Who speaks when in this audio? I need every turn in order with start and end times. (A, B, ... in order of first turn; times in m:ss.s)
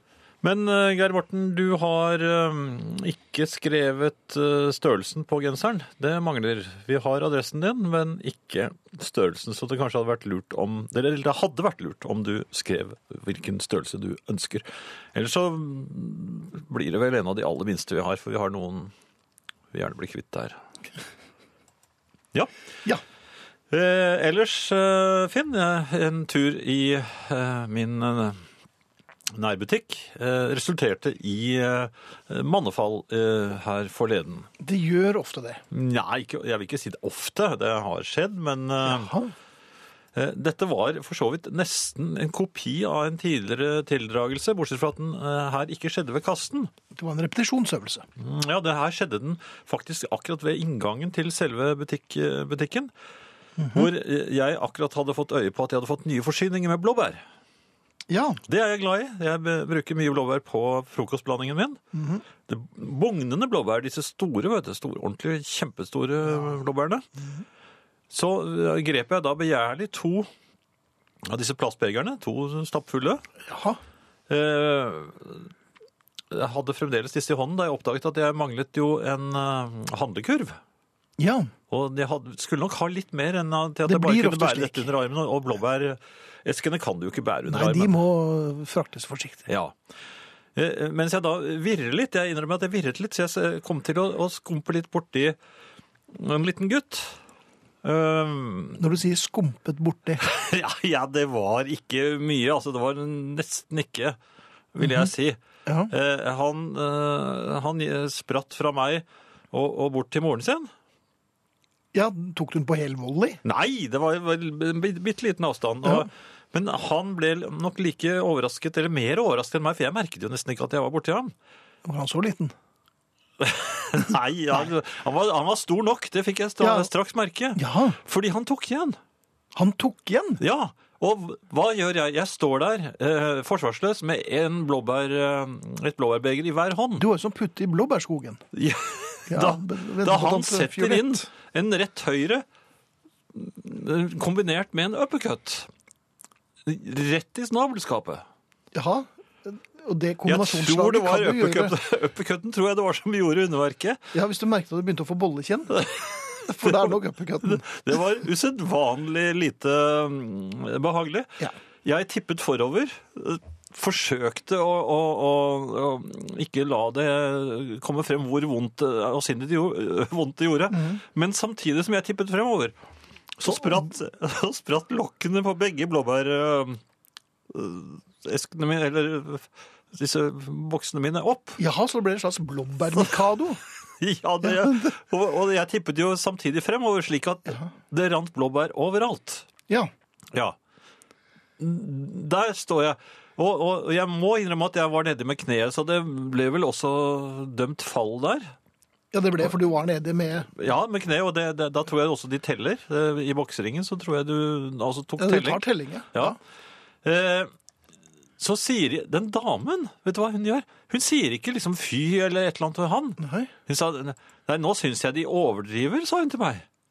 0:00.4-0:18.9 A
0:19.7-0:20.6 A
0:23.7-0:28.4 A
0:29.3-0:34.5 A
0:34.6-0:35.6 B
0:35.7-0:39.1 A
0:38.8-0:39.3 B
0:40.1-0:46.7 A
0:46.9-0:48.1 B
0:48.2-0:52.9 A
0:53.6-0:53.9 B
0:53.7-0:57.2 A
0:58.1-0:58.4 B
0:58.5-1:01.8 A
1:01.9-1:02.2 B
1:02.5-1:07.0 A
1:08.1-1:10.3 A
1:11.2-1:13.2 A
1:13.4-1:13.8 B
1:14.3-1:15.5 A
1:16.3-1:20.6 A
1:21.2-1:21.5 B
1:21.7-1:28.0 A
1:23.8-1:24.9 B
1:27.5-1:29.5 B
1:29.5-1:29.7 A
1:30.6-1:35.4 A
1:36.1-1:37.2 A
1:37.8-1:38.8 A
1:38.8-1:40.2 B
1:40.2-1:44.2 A
1:44.7-1:45.4 A
1:44.8-1:45.1 B
1:45.6-1:45.9 B
1:45.9-1:50.7 A
1:51.9-1:53.4 B
1:53.4-2:01.3 A
1:55.8-1:56.1 B
2:01.8-2:02.5 B
2:03.4-2:09.0 A
2:06.6-2:06.9 B
2:07.5-2:08.0 B
2:09.5-2:10.4 B
2:10.4-2:17.0 A
2:17.0-2:18.4 B
2:18.5-2:22.4 A
2:19.3-2:21.3 B
2:23.3-2:25.7 A
2:26.6-2:28.2 A
2:28.7-2:31.7 B
2:30.2-2:34.0 A
2:34.1-2:35.8 B
2:35.7-2:52.7 A
2:36.4-2:38.0 B
2:50.7-2:51.0 B
2:53.4-2:56.8 A
2:53.5-2:53.8 B
2:57.5-3:01.6 A
3:01.6-3:03.6 B
3:04.0-3:09.5 A
3:04.4-3:04.9 B
3:11.6-3:18.5 A
3:19.1-3:20.5 B
3:20.6-3:26.4 A
3:25.2-3:26.4 B
3:27.0-3:27.5 A
3:28.4-3:36.6 A
3:33.2-3:33.5 B